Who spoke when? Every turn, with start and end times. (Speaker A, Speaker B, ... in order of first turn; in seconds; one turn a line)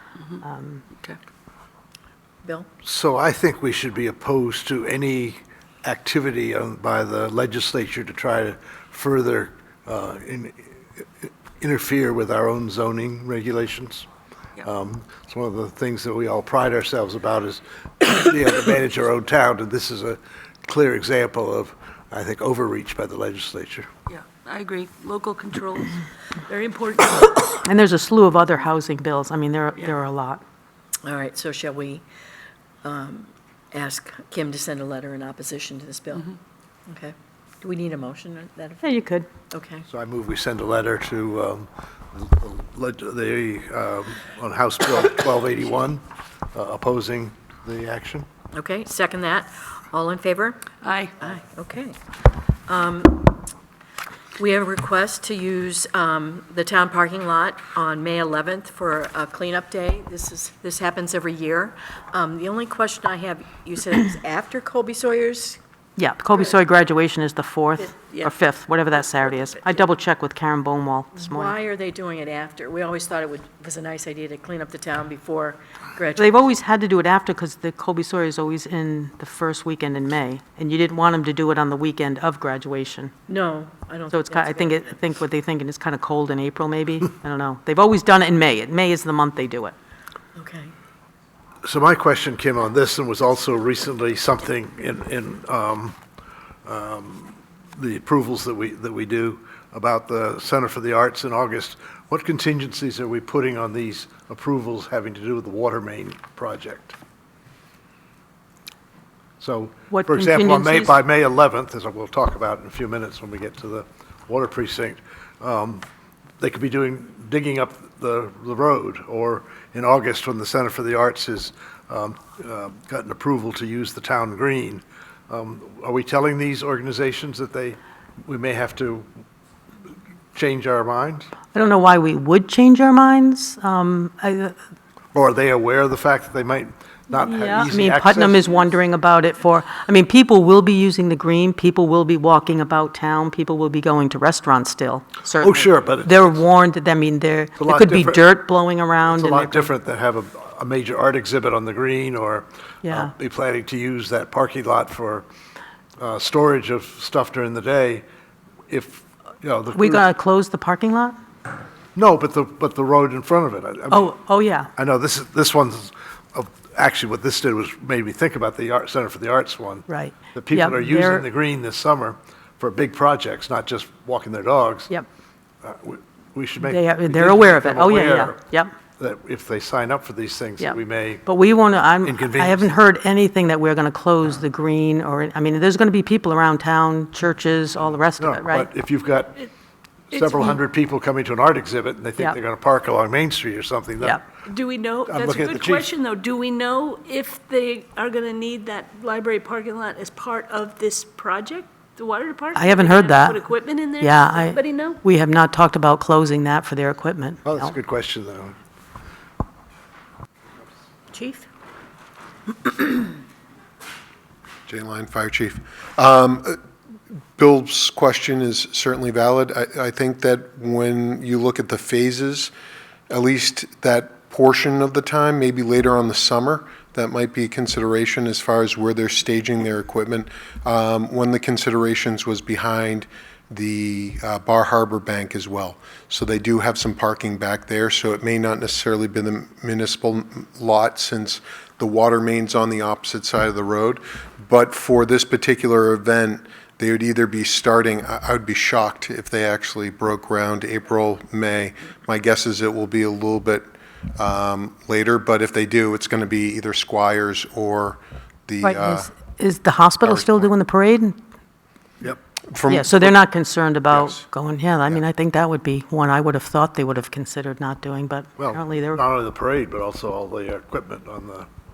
Speaker A: 0.4-0.8
Speaker B: 2.8-14.1
Speaker B: 14.6-23.9
Speaker C: 24.1-27.5
Speaker A: 27.6-30.4
Speaker D: 31.0-32.0
Speaker D: 32.8-36.4
Speaker D: 36.9-38.8
Speaker A: 38.8-39.3
Speaker D: 39.5-39.8
Speaker B: 39.9-46.0
Speaker B: 46.5-48.3
Speaker D: 48.5-50.6
Speaker C: 50.8-51.1
Speaker D: 51.2-52.0
Speaker D: 52.7-53.5
Speaker D: 54.4-65.6
Speaker A: 66.0-71.5
Speaker D: 71.2-76.3
Speaker A: 76.2-83.1
Speaker D: 83.3-84.8
Speaker A: 84.1-89.7
Speaker D: 90.3-90.7
Speaker B: 91.6-96.0
Speaker B: 96.6-107.0
Speaker B: 109.4-115.8
Speaker A: 109.9-111.0
Speaker B: 116.4-129.1
Speaker B: 130.3-131.3
Speaker A: 131.5-134.6
Speaker B: 135.1-138.5
Speaker A: 137.2-149.7
Speaker B: 145.4-146.4
Speaker B: 147.6-148.2
Speaker B: 149.1-155.2
Speaker A: 152.8-153.1
Speaker B: 156.0-158.0
Speaker B: 158.7-160.1
Speaker A: 159.7-161.2
Speaker B: 161.9-164.1
Speaker A: 163.9-164.7
Speaker B: 164.8-174.9
Speaker A: 169.9-171.3
Speaker B: 175.6-178.4
Speaker A: 176.6-178.7
Speaker B: 179.0-181.2
Speaker A: 180.6-188.7
Speaker B: 182.0-182.7
Speaker B: 188.2-189.5
Speaker C: 190.1-190.6
Speaker B: 190.1-194.2
Speaker C: 194.4-205.0
Speaker B: 195.1-195.9
Speaker A: 202.5-203.4
Speaker A: 204.0-207.7
Speaker B: 207.4-208.6
Speaker D: 211.1-211.4
Speaker E: 214.7-216.6
Speaker E: 217.3-222.5
Speaker E: 223.1-259.1
Speaker A: 258.6-261.2
Speaker E: 260.0-260.5
Speaker E: 262.5-263.1
Speaker A: 262.7-269.0
Speaker E: 263.9-264.2
Speaker B: 268.4-271.5